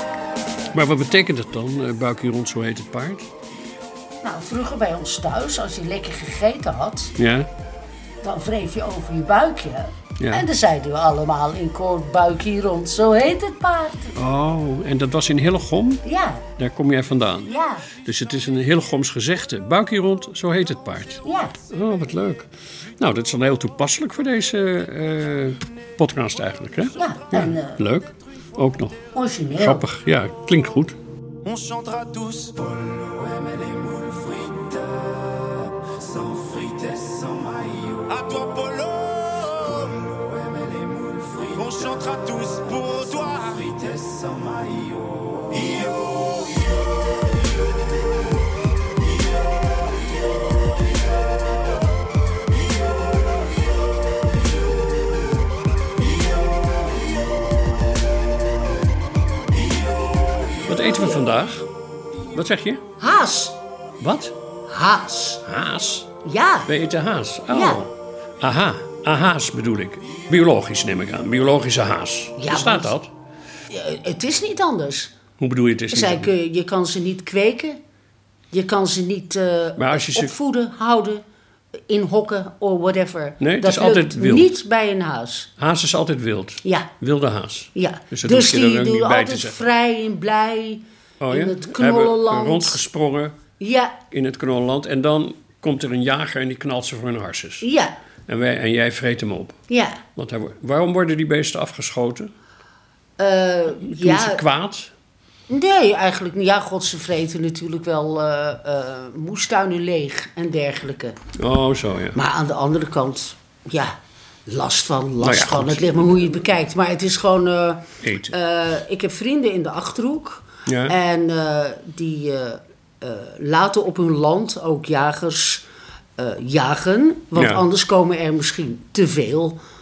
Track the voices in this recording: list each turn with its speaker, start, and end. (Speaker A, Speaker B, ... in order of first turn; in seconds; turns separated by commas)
Speaker A: 0.7-3.3, Speaker B: 4.2-7.2, Speaker A: 7.2-7.5, Speaker B: 8.2-14.2, Speaker A: 10.2-10.5, Speaker A: 14.2-16.0, Speaker B: 16.1-16.4, Speaker A: 16.6-29.0, Speaker B: 17.4-17.9, Speaker B: 21.2-21.6, Speaker B: 27.0-27.8, Speaker B: 29.1-29.8, Speaker A: 29.6-31.0, Speaker C: 31.4-34.9, Speaker C: 35.8-46.1, Speaker A: 60.7-61.7, Speaker B: 60.8-61.2, Speaker A: 62.3-62.8, Speaker B: 63.0-63.6, Speaker A: 64.0-64.3, Speaker B: 64.7-65.4, Speaker A: 65.5-66.1, Speaker B: 66.2-66.7, Speaker A: 66.7-73.1, Speaker B: 67.5-67.8, Speaker B: 72.4-72.9, Speaker B: 73.7-75.1, Speaker A: 75.4-76.3, Speaker B: 75.9-77.8, Speaker B: 78.5-81.2, Speaker A: 79.8-80.3, Speaker B: 81.9-85.5, Speaker A: 83.4-84.5, Speaker A: 85.6-89.6, Speaker B: 86.6-86.9, Speaker B: 87.8-92.8, Speaker A: 91.2-93.4, Speaker B: 93.6-94.0, Speaker A: 94.1-97.7, Speaker B: 97.6-98.0, Speaker A: 98.3-99.6, Speaker B: 99.7-100.0, Speaker A: 100.2-102.3, Speaker B: 103.2-104.4, Speaker A: 103.8-104.9, Speaker B: 105.5-111.2, Speaker A: 111.4-112.2, Speaker B: 112.2-114.0, Speaker B: 114.5-125.7, Speaker A: 115.2-116.1, Speaker A: 118.0-118.3, Speaker A: 120.7-121.0, Speaker B: 126.2-129.6, Speaker A: 127.3-127.6